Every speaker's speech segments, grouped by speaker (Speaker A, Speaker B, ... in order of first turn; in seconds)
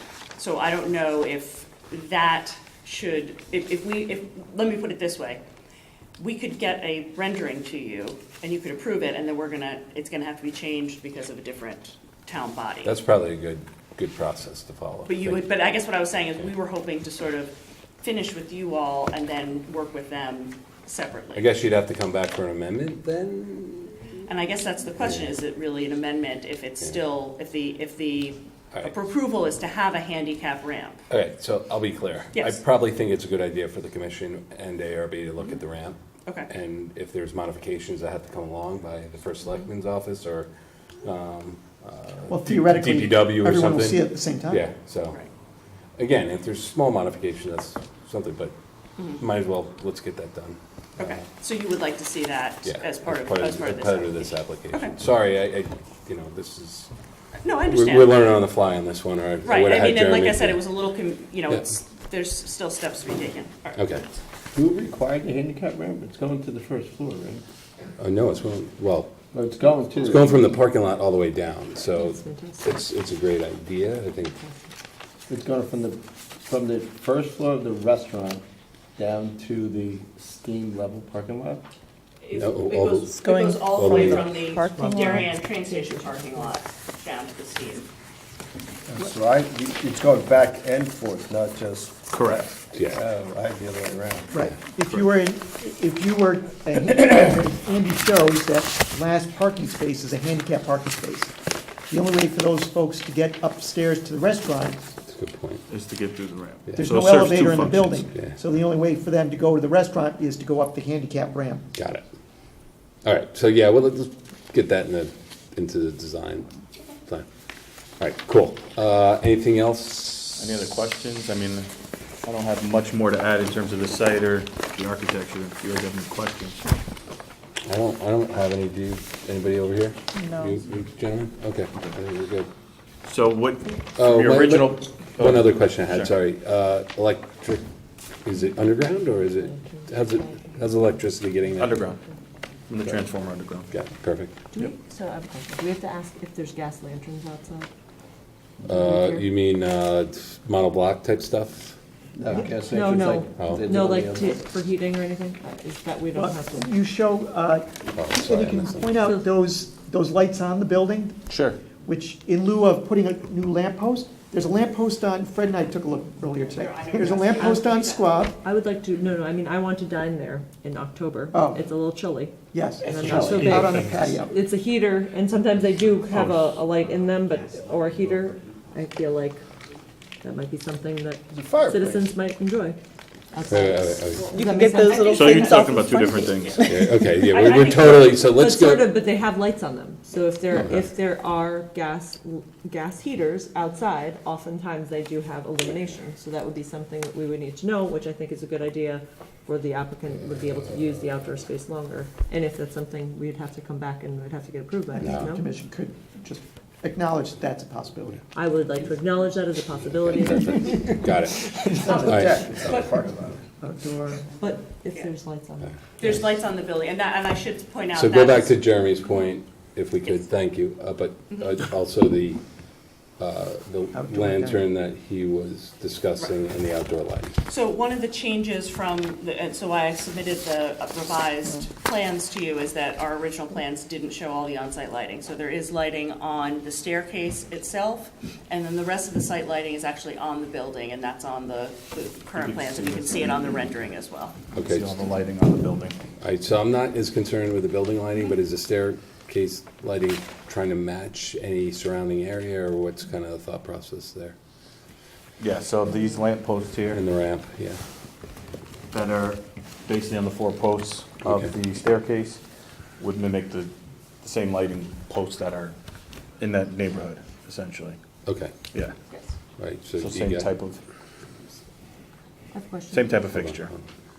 Speaker A: 0.4-5.4, 6.2-12.9, 15.1-21.5, 24.3-31.0, 32.3-32.6, 51.0-55.0, 57.4-58.2, 59.4-64.0, 82.2-87.9, 166.4-168.2, 184.8-188.2, 216.0-218.6, 227.5-244.4
Speaker B: 12.8-15.4, 21.3-24.2, 25.0-25.3, 31.1-40.5, 41.0-45.2, 46.0-48.5, 49.2-51.2, 52.6-56.9, 57.7-60.6, 63.8-64.0, 68.0-69.1, 70.0-74.4, 82.3-84.4, 92.7-93.0, 105.1-105.6, 108.1-108.4, 111.8-112.0, 113.0-116.5, 118.0-120.6, 127.7-132.5, 134.0-137.6, 138.2-141.7, 143.7-144.4, 148.7-151.8, 157.9-159.0, 183.5-184.3, 186.6-189.0, 205.0-205.3, 210.2-212.5, 216.0-216.3, 217.9-222.4, 223.2-227.3, 244.5-244.9, 246.2-254.4, 256.9-257.8, 261.2-261.5, 268.2-268.5, 269.6-270.5, 273.3-273.8
Speaker C: 42.3-44.7, 84.7-85.3, 94.3-101.3, 101.9-104.8, 106.8-111.7, 130.2-130.5, 156.2-161.2, 161.8-168.3, 171.3-171.6, 172.5-174.3, 205.0-208.2, 211.5-212.9, 213.5-214.3, 223.9-224.7
Speaker D: 64.5-67.4, 69.3-70.4, 75.3-78.4, 79.0-81.6, 83.2-83.5, 84.5-84.9, 88.9-91.9, 92.8-94.3, 152.2-154.5, 172.8-173.5, 181.4-182.0, 184.3-186.3
Speaker E: 71.9-72.9, 74.4-74.6, 139.4-140.6, 144.5-147.7, 148.6-149.3, 152.3-156.7, 167.4-167.7, 168.4-172.3, 172.9-179.4, 180.2-182.8, 183.3-185.7, 188.2-205.4, 208.3-211.1, 214.4-215.8, 272.5-273.2
Speaker F: 89.1-91.9, 184.4-184.8, 212.2-213.4
Speaker G: 92.1-92.6, 105.7-108.1, 120.4-121.7, 122.2-126.6, 133.0-136.1, 141.6-142.0, 142.7-143.7, 161.3-161.6, 173.1-174.2, 176.1-176.4, 185.0-186.7, 242.3-243.9, 244.6-246.0, 255.4-257.0, 258.9-262.4, 263.0-265.7, 266.4-268.0, 270.0-270.8, 272.9-273.7